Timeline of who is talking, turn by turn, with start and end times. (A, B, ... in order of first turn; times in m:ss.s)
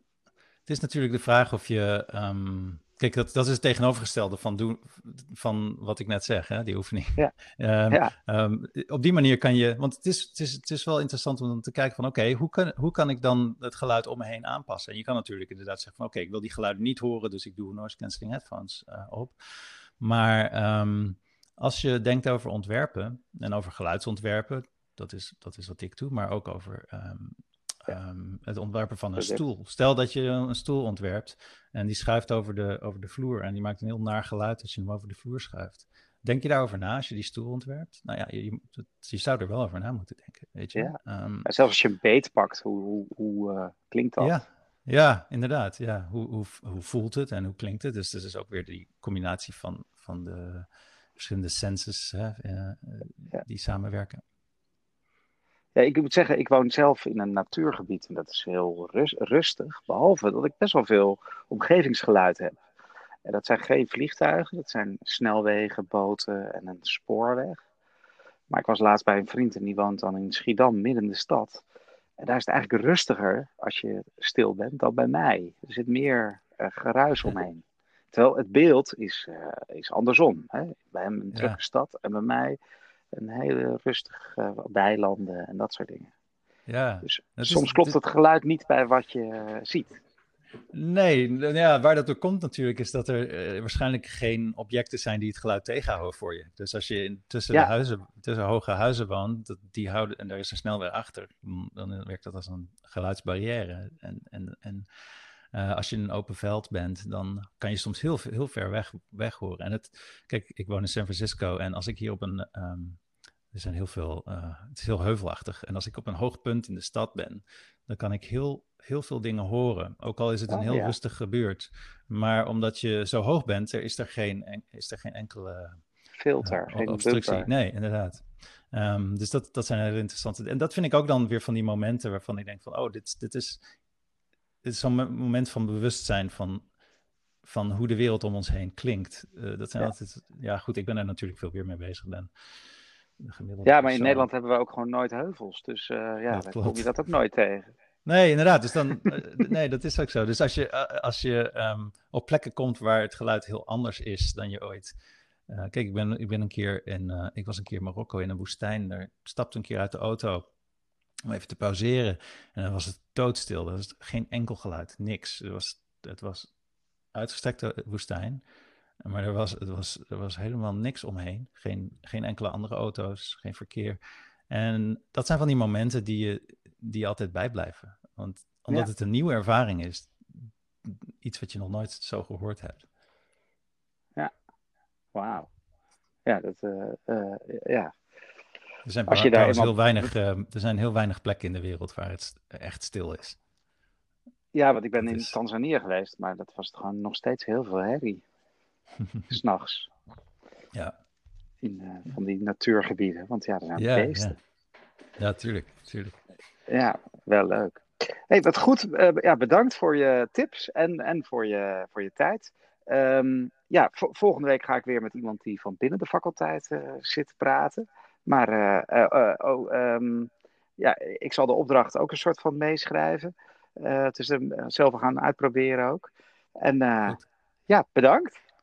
0:00.7-0:41.5 A
0:29.2-0:29.4 B
0:40.7-0:44.4 B
0:44.2-0:54.2 A
0:55.7-1:02.5 B
1:03.2-1:07.6 B
1:08.5-1:11.6 B
1:12.2-1:22.6 B
1:21.3-1:21.6 A
1:23.1-1:26.1 B
1:26.7-1:28.0 A
1:27.0-1:30.0 B
1:30.7-1:44.8 A
1:45.5-1:53.0 A
1:53.5-2:05.8 A
2:00.5-2:01.0 B
2:06.1-2:07.5 B
2:06.4-2:13.6 A
2:14.6-2:16.7 A
2:17.4-2:22.3 A
2:23.2-2:24.2 A
2:23.6-2:27.7 B
2:26.3-2:26.9 A
2:28.0-2:34.9 A
2:35.5-2:40.4 A
2:41.3-2:46.5 A
2:47.1-2:48.4 A
2:49.0-2:54.0 A
2:54.5-3:02.8 A
3:05.1-3:05.5 B
3:06.2-3:07.9 B
3:08.8-3:13.4 A
3:09.1-3:09.8 B
3:14.5-3:18.2 B
3:15.0-3:15.3 A
3:19.3-3:19.9 B
3:21.6-3:24.4 B
3:23.8-3:24.3 A
3:25.2-3:26.1 A
3:26.7-3:48.4 B